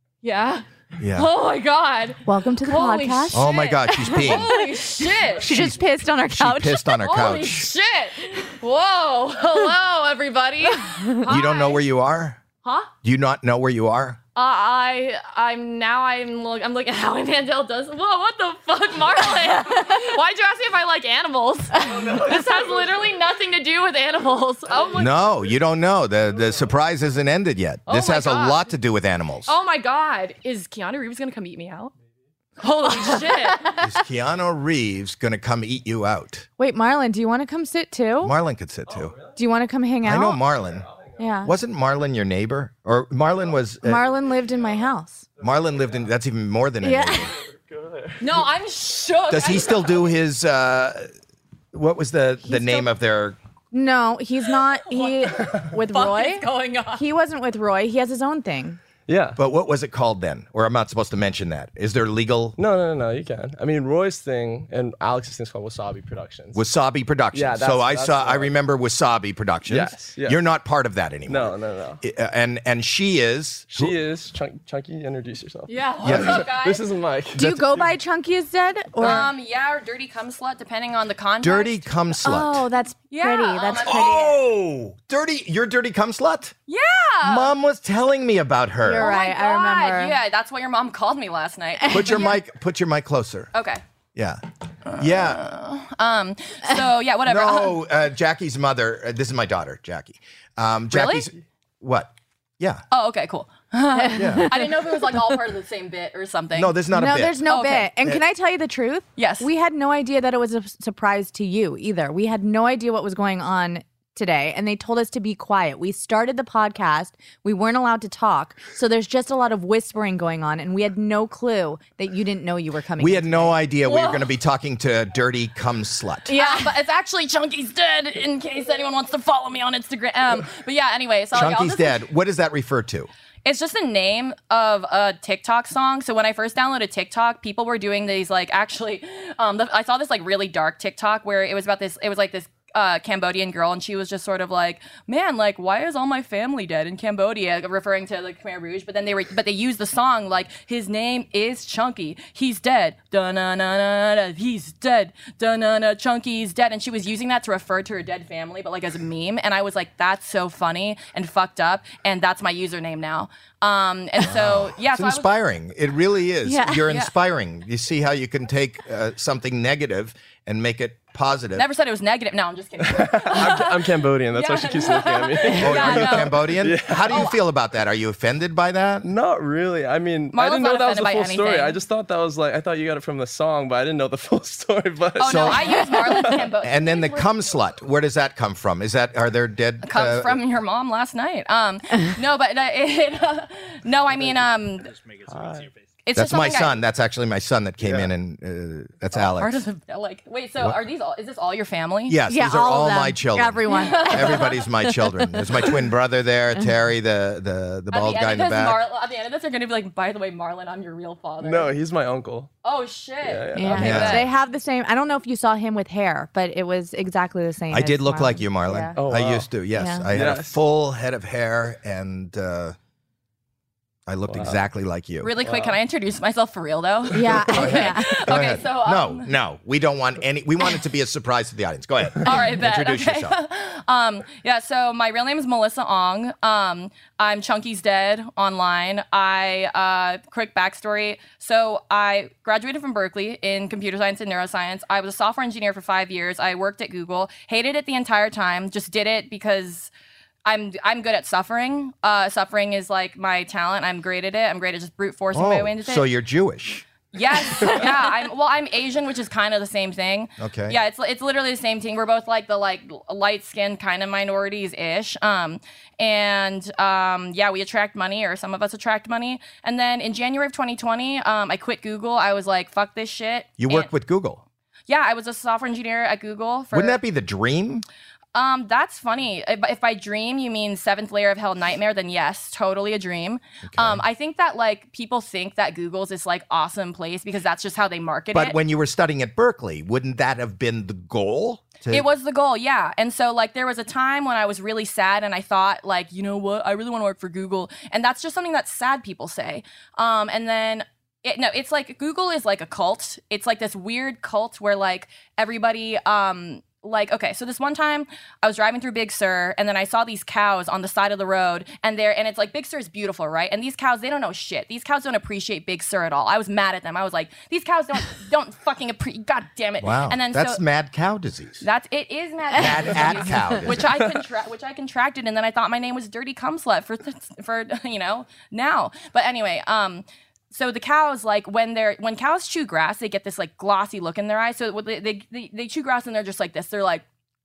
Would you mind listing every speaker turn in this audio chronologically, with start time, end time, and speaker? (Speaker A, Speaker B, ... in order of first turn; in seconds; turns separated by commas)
Speaker A: 0.2-5.5, Speaker B: 1.0-1.3, Speaker C: 2.2-7.0, Speaker B: 3.3-4.5, Speaker D: 5.4-5.7, Speaker B: 5.5-7.7, Speaker A: 7.0-11.8, Speaker C: 10.9-11.3, Speaker B: 11.3-12.4, Speaker A: 12.6-12.9, Speaker B: 13.0-14.2, Speaker A: 14.4-25.1, Speaker D: 21.8-23.2, Speaker D: 24.7-25.6, Speaker B: 25.0-29.5, Speaker D: 26.3-26.7, Speaker A: 27.9-28.7, Speaker A: 29.5-31.9, Speaker A: 32.6-33.7, Speaker C: 33.5-33.9, Speaker B: 33.8-36.5, Speaker C: 36.6-38.4, Speaker B: 38.2-39.2, Speaker D: 38.9-39.4, Speaker C: 39.4-40.4, Speaker B: 40.0-40.9, Speaker D: 40.4-41.5, Speaker C: 41.2-41.5, Speaker B: 41.4-44.0, Speaker D: 43.5-46.1, Speaker C: 43.8-45.3, Speaker B: 45.4-47.4, Speaker C: 46.8-47.3, Speaker D: 47.1-48.5, Speaker A: 48.2-50.1, Speaker B: 49.3-51.1, Speaker B: 51.7-53.4, Speaker C: 52.4-52.9, Speaker C: 53.7-58.8, Speaker D: 55.4-55.7, Speaker A: 55.9-57.0, Speaker D: 59.1-59.4, Speaker B: 59.4-62.6, Speaker D: 62.6-66.6, Speaker B: 66.5-74.0, Speaker D: 67.3-68.5, Speaker D: 69.7-70.4, Speaker D: 71.3-72.0, Speaker D: 73.7-77.9, Speaker A: 75.7-76.9, Speaker B: 76.0-76.5, Speaker C: 77.4-79.3, Speaker B: 77.4-77.7, Speaker A: 79.0-82.0, Speaker B: 81.4-82.7, Speaker C: 82.2-84.4, Speaker A: 83.1-84.2, Speaker B: 83.8-86.5, Speaker A: 86.7-87.5, Speaker B: 87.2-89.2, Speaker C: 88.8-90.2, Speaker A: 88.8-92.3, Speaker C: 91.8-92.3, Speaker B: 91.9-93.5, Speaker A: 93.5-93.8, Speaker B: 94.2-94.4, Speaker A: 94.9-97.8, Speaker B: 95.0-95.4, Speaker B: 97.3-102.8, Speaker A: 100.9-101.3, Speaker A: 102.9-106.8, Speaker C: 104.0-104.7, Speaker B: 104.1-104.5, Speaker B: 106.5-107.5, Speaker C: 106.9-123.6, Speaker A: 107.5-107.9, Speaker A: 109.2-109.5, Speaker B: 123.0-126.3, Speaker A: 123.8-124.3, Speaker C: 126.3-126.7, Speaker A: 126.3-132.1, Speaker B: 131.3-133.1, Speaker A: 133.4-165.3, Speaker B: 164.2-171.7, Speaker C: 166.4-166.9, Speaker A: 171.6-176.6, Speaker D: 172.9-177.3, Speaker B: 175.5-179.1, Speaker A: 177.1-177.4, Speaker D: 179.0-186.4, Speaker A: 180.3-181.8, Speaker A: 185.2-187.3, Speaker B: 185.2-185.9, Speaker B: 186.6-190.4, Speaker A: 189.8-194.9, Speaker D: 195.2-195.7, Speaker A: 196.1-196.8, Speaker B: 196.1-199.6, Speaker D: 197.8-198.1, Speaker A: 199.1-202.2, Speaker B: 202.1-208.8, Speaker C: 202.3-205.8, Speaker A: 203.7-204.6, Speaker A: 207.9-211.8, Speaker D: 211.4-212.5, Speaker A: 212.6-214.3, Speaker D: 213.2-214.1, Speaker C: 213.6-219.0, Speaker B: 213.8-214.3, Speaker B: 217.7-222.8, Speaker D: 218.9-219.5, Speaker C: 219.8-220.1, Speaker D: 220.1-220.6, Speaker B: 224.1-225.3, Speaker D: 224.3-224.6, Speaker A: 225.2-229.3, Speaker D: 225.4-225.8, Speaker C: 227.1-228.2, Speaker D: 227.3-227.8, Speaker B: 227.5-233.4, Speaker A: 232.2-249.9, Speaker A: 250.5-256.1, Speaker B: 255.3-256.9, Speaker A: 257.1-273.9, Speaker B: 260.4-260.8, Speaker B: 273.6-274.4, Speaker A: 274.9-277.0, Speaker B: 276.7-277.9, Speaker A: 278.3-288.6, Speaker B: 283.6-284.0, Speaker B: 288.3-292.1, Speaker A: 291.9-320.6, Speaker B: 319.8-321.6, Speaker A: 321.6-337.1, Speaker B: 322.5-323.9